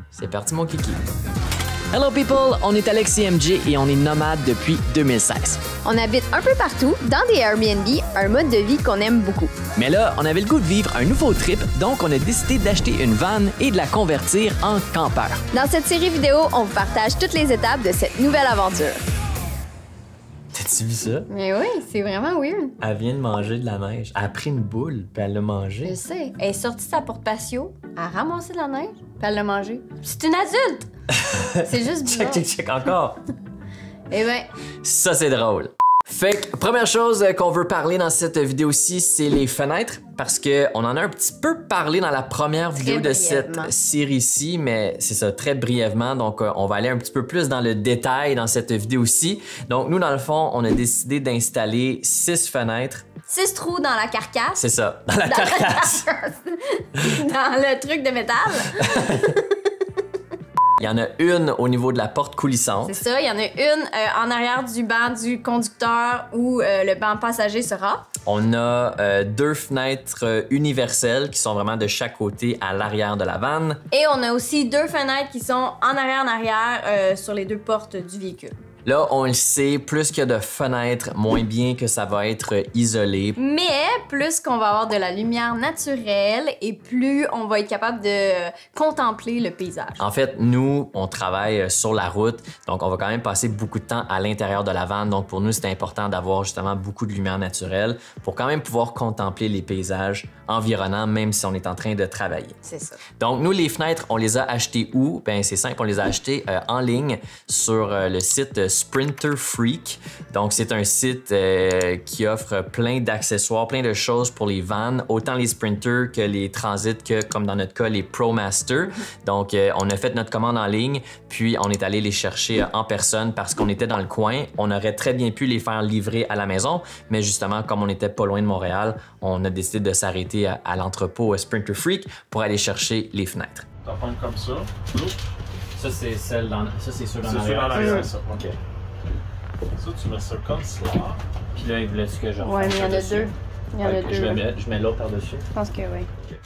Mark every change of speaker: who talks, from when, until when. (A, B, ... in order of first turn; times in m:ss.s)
0:00.1-0:01.0 A
0:01.9-0:05.6 A
0:05.8-0:09.5 B
0:09.8-0:15.4 A
0:15.5-0:19.0 B
0:20.5-0:21.3 A
0:21.3-0:22.8 B
0:22.8-0:26.0 A
0:25.8-0:30.9 B
0:31.1-0:33.2 A
0:31.6-0:32.4 B
0:34.1-0:34.5 B
0:34.8-0:53.0 A
0:42.8-0:43.7 B
0:53.3-0:54.6 B
0:54.6-0:56.0 A
0:55.2-0:59.7 B
0:58.7-0:59.3 A
1:00.8-1:03.0 A
1:02.8-1:08.1 B
1:08.2-1:13.8 A
1:13.9-1:18.5 B
1:18.8-1:23.4 A
1:23.4-1:30.0 B
1:30.0-1:42.6 A
1:42.6-1:43.0 B
1:43.2-2:13.6 A
2:13.8-2:15.2 C
2:15.8-2:18.6 A
2:17.2-2:18.3 C
2:17.7-2:18.1 B
2:19.8-2:21.2 C
2:21.5-2:25.4 A
2:22.4-2:24.4 B
2:25.5-2:26.1 B